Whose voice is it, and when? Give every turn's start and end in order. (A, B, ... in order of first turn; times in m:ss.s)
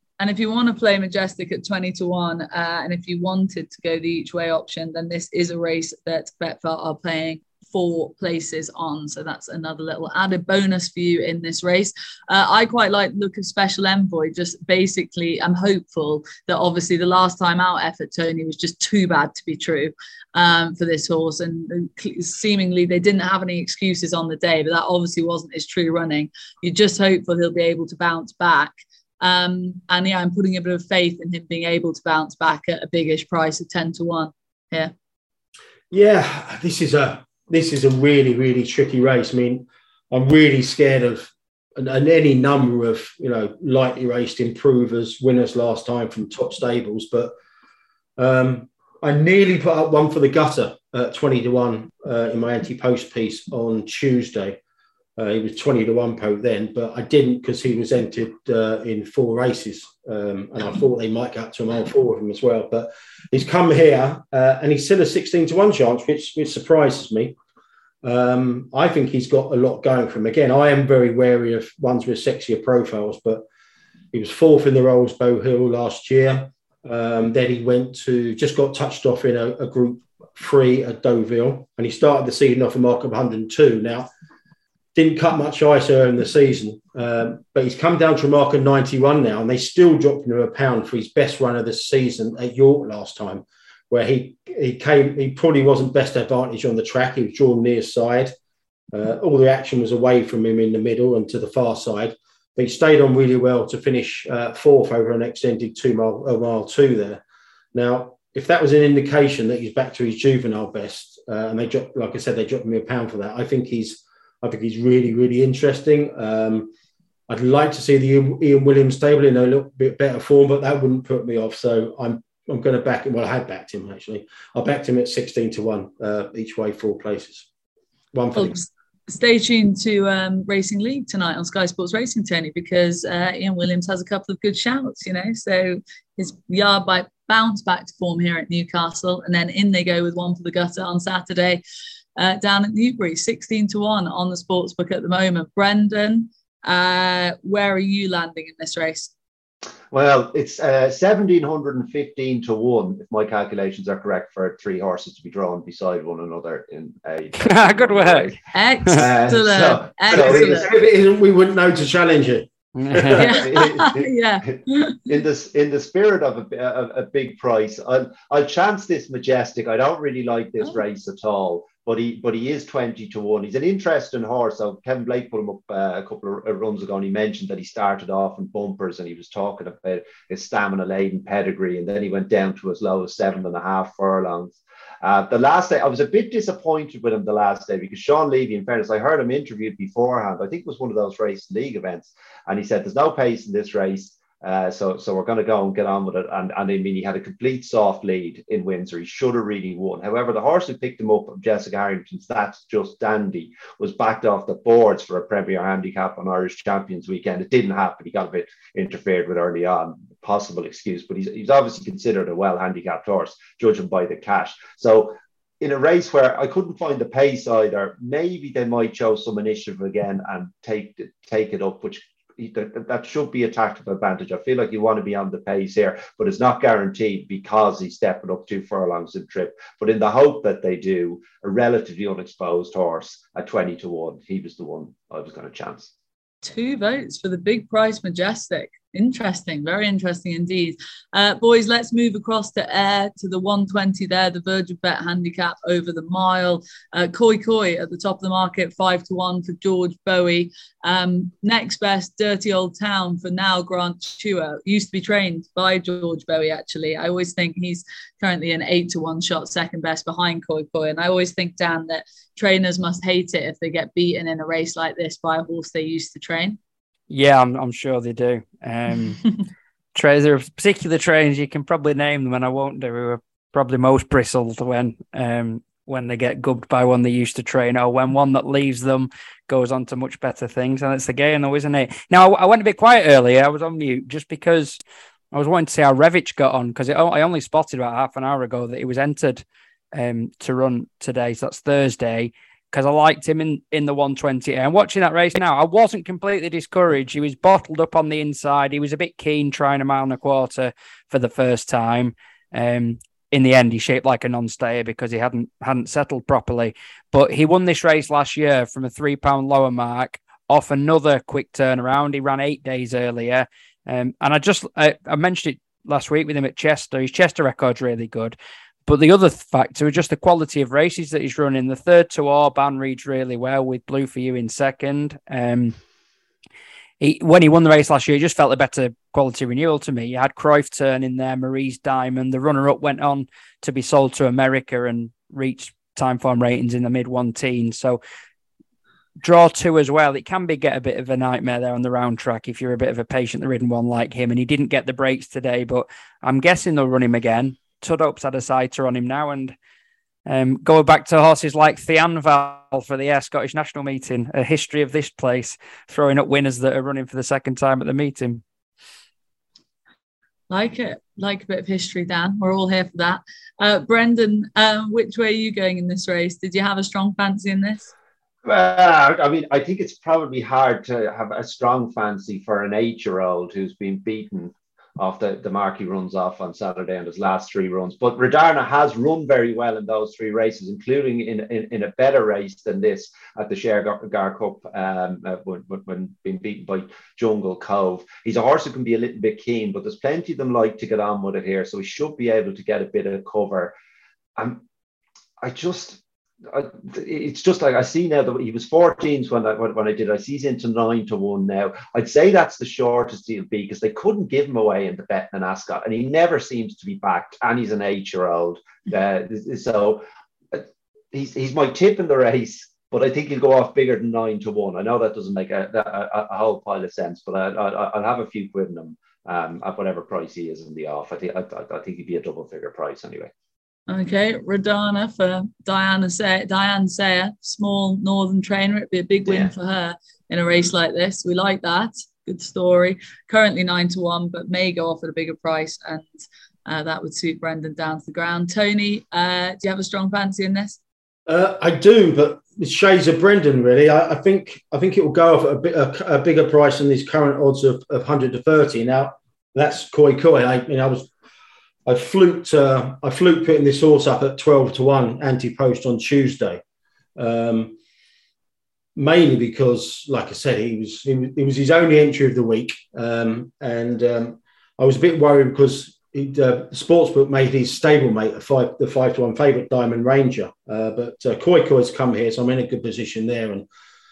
0:00.2-0:34.9 A
0:35.9-0:47.3 B
0:48.2-0:54.6 B
0:55.2-1:07.4 B
1:08.0-1:13.4 B
1:14.1-1:24.1 B
1:25.0-1:38.3 B
1:38.9-1:47.2 B
1:47.7-1:56.7 B
1:57.3-2:07.5 B
2:08.1-2:08.6 B
2:08.3-2:21.6 A
2:22.2-2:29.1 A
2:29.9-2:38.3 C
2:37.4-2:39.0 D
2:38.5-2:40.7 A
2:39.0-2:40.7 C
2:40.1-2:43.2 B
2:42.8-2:43.4 D
2:43.1-3:55.9 C
2:43.2-2:45.0 A
3:56.4-4:26.6 A
4:27.1-4:29.4 D
4:30.0-4:44.8 D
4:45.3-5:18.4 D
5:18.9-5:25.8 D
5:27.0-5:38.0 D
5:39.2-5:49.6 D
5:50.3-5:58.4 D
6:00.5-6:07.9 A
6:08.4-6:33.8 C
6:34.4-6:34.6 C
6:35.4-7:03.3 C
7:03.9-7:16.1 A
7:09.3-7:09.5 C
7:16.7-7:20.8 A
7:21.3-7:31.1 B
7:31.9-7:36.6 B
7:37.2-7:37.8 B
7:39.0-7:53.7 B